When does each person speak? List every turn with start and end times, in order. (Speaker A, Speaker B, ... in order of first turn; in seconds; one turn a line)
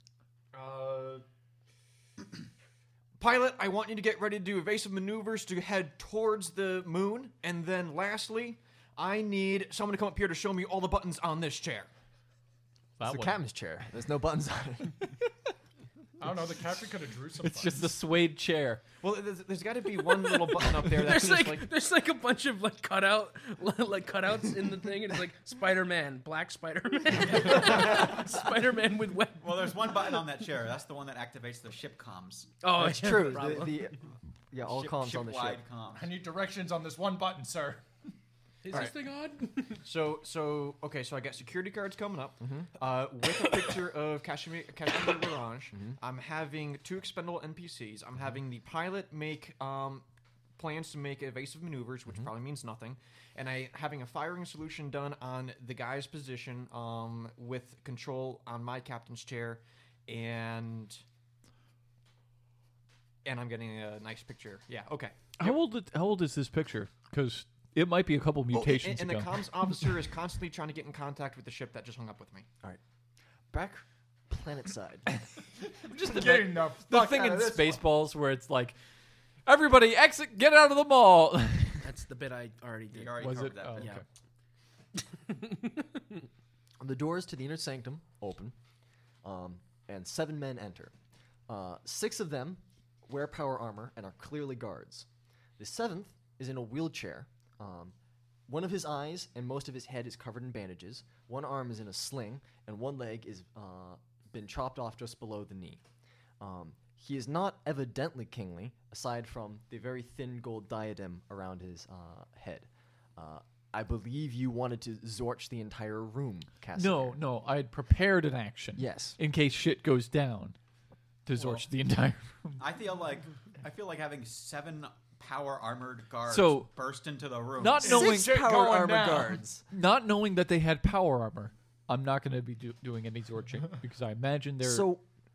Speaker A: 0.5-1.2
Speaker A: 3.2-11.9
Speaker B: 13.0-13.4
Speaker C: 13.0-15.0
Speaker D: 16.2-17.9
Speaker B: 17.4-18.8
Speaker A: 19.0-21.7
Speaker E: 20.1-29.9
Speaker F: 27.3-28.1
Speaker F: 29.4-32.5
Speaker E: 32.6-33.9
Speaker C: 32.7-35.6
Speaker F: 34.6-36.2
Speaker D: 36.0-37.9
Speaker E: 38.6-39.8
Speaker A: 39.8-50.0
Speaker C: 42.4-42.7
Speaker C: 45.7-46.0
Speaker A: 50.6-61.0
Speaker A: 63.2-65.6
Speaker B: 65.4-69.4
Speaker A: 68.5-72.5
Speaker C: 73.5-75.1
Speaker B: 75.8-78.8
Speaker D: 76.0-77.8
Speaker B: 79.4-81.9
Speaker E: 81.8-84.0
Speaker F: 82.9-84.0
Speaker B: 83.2-84.0
Speaker E: 85.3-85.8
Speaker C: 86.8-88.5
Speaker C: 89.2-90.9
Speaker C: 91.5-95.0
Speaker C: 95.6-97.9
Speaker C: 98.5-105.8
Speaker C: 106.4-117.2
Speaker B: 116.7-120.5
Speaker C: 118.8-119.2
Speaker B: 121.2-122.6
Speaker D: 121.3-121.6
Speaker F: 122.6-127.9
Speaker B: 126.3-126.7
Speaker B: 127.6-128.4
Speaker C: 127.8-129.6
Speaker D: 127.8-129.5
Speaker B: 129.7-134.9
Speaker C: 134.6-135.0